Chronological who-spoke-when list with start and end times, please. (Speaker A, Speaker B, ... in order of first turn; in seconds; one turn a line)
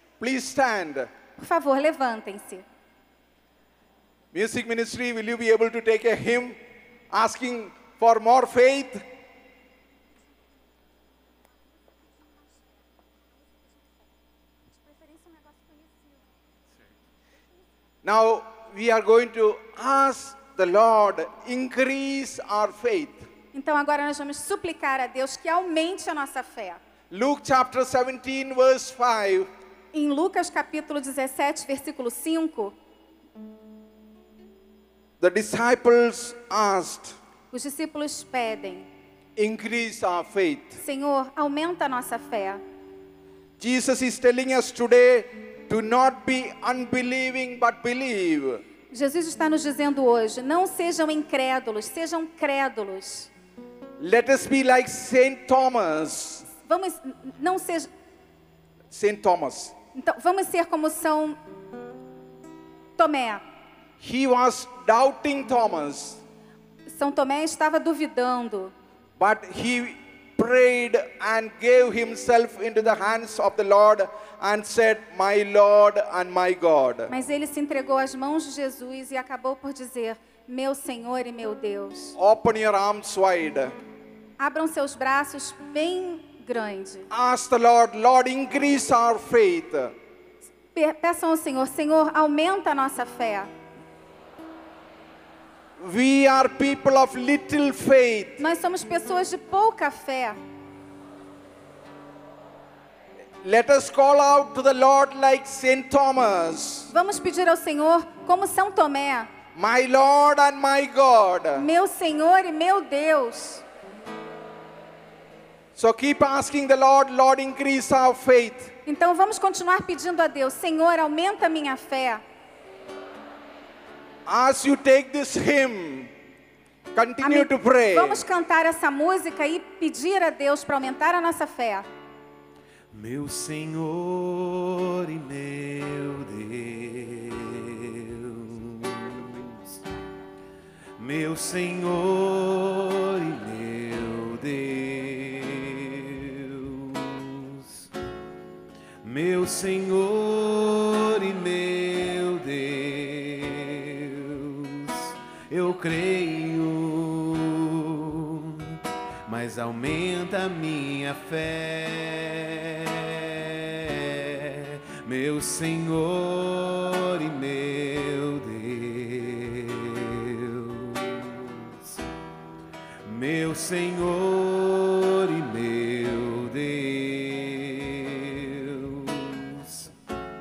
Speaker A: 0.2-1.1
Speaker B: 1.4-2.6
Speaker A: 4.3-6.6
Speaker A: 7.1-9.0
Speaker B: 15.0-15.5
Speaker A: 18.0-23.3
Speaker B: 23.5-26.8
Speaker A: 27.1-29.5
Speaker B: 29.9-32.7
Speaker A: 35.2-37.2
Speaker B: 37.5-38.9
Speaker A: 39.4-40.8
Speaker B: 40.8-42.6
Speaker A: 43.6-48.6
Speaker B: 48.9-53.3
Speaker A: 54.0-56.5
Speaker B: 56.6-57.9
Speaker A: 58.9-59.7
Speaker B: 59.9-61.4
Speaker B: 63.0-63.4
Speaker A: 64.0-66.2
Speaker B: 66.9-68.7
Speaker A: 69.2-77.1
Speaker B: 77.1-82.2
Speaker A: 82.2-83.7
Speaker B: 84.4-87.1
Speaker A: 87.1-89.9
Speaker B: 90.7-93.5
Speaker A: 95.8-98.4
Speaker B: 98.4-100.4
Speaker A: 103.4-106.9
Speaker B: 106.9-109.3
Speaker A: 109.5-111.7
Speaker B: 111.5-113.6
Speaker A: 115.8-118.7
Speaker B: 118.8-122.2
Speaker A: 124.2-126.1
Speaker A: 126.9-128.2
Speaker B: 127.2-131.8
Speaker C: 132.9-139.8
Speaker C: 141.0-147.9
Speaker C: 149.0-172.0
Speaker C: 173.0-179.9